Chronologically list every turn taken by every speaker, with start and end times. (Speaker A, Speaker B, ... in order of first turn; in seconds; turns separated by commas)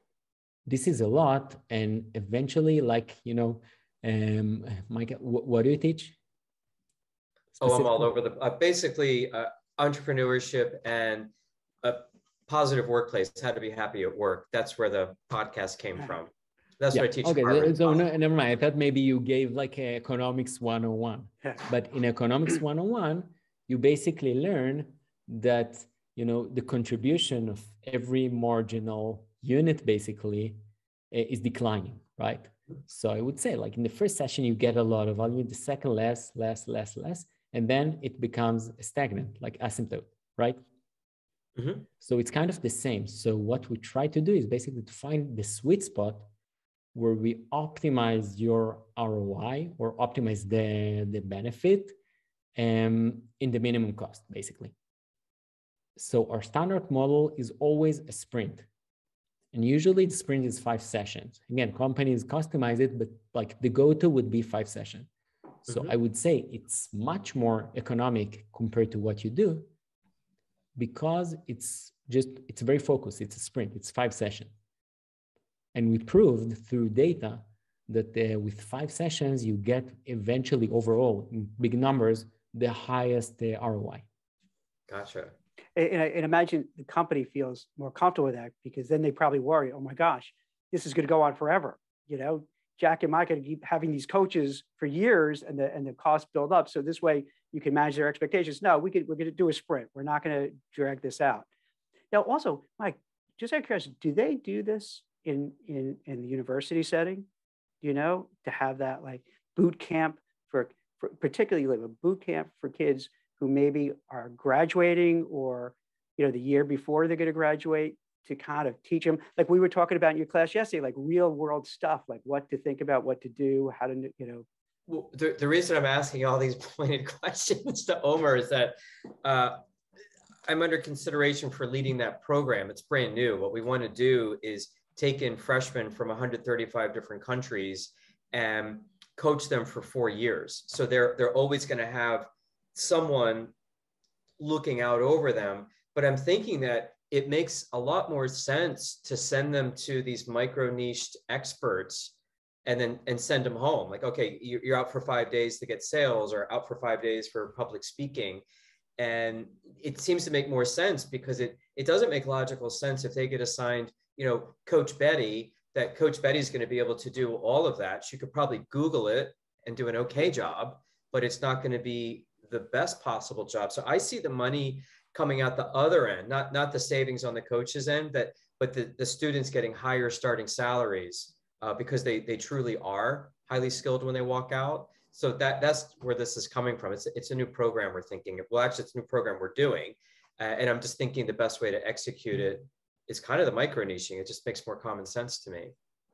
Speaker A: 0.7-6.2, Speaker A: 7.5-8.1, Speaker B: 7.6-11.3, Speaker B: 11.8-18.0, Speaker A: 16.9-30.6, Speaker A: 31.1-40.6, Speaker B: 41.5-41.9, Speaker A: 42.0-46.3, Speaker A: 46.9-51.9, Speaker A: 52.5-54.7, Speaker A: 56.0-58.7, Speaker A: 59.5-65.1, Speaker A: 65.7-69.7, Speaker B: 65.7-65.9, Speaker A: 70.8-74.5, Speaker A: 75.7-84.0, Speaker B: 84.9-85.3, Speaker C: 85.8-101.5, Speaker C: 102.1-107.3, Speaker C: 107.8-124.5, Speaker B: 124.9-129.6, Speaker B: 130.4-143.5, Speaker B: 144.4-158.4, Speaker B: 159.0-195.7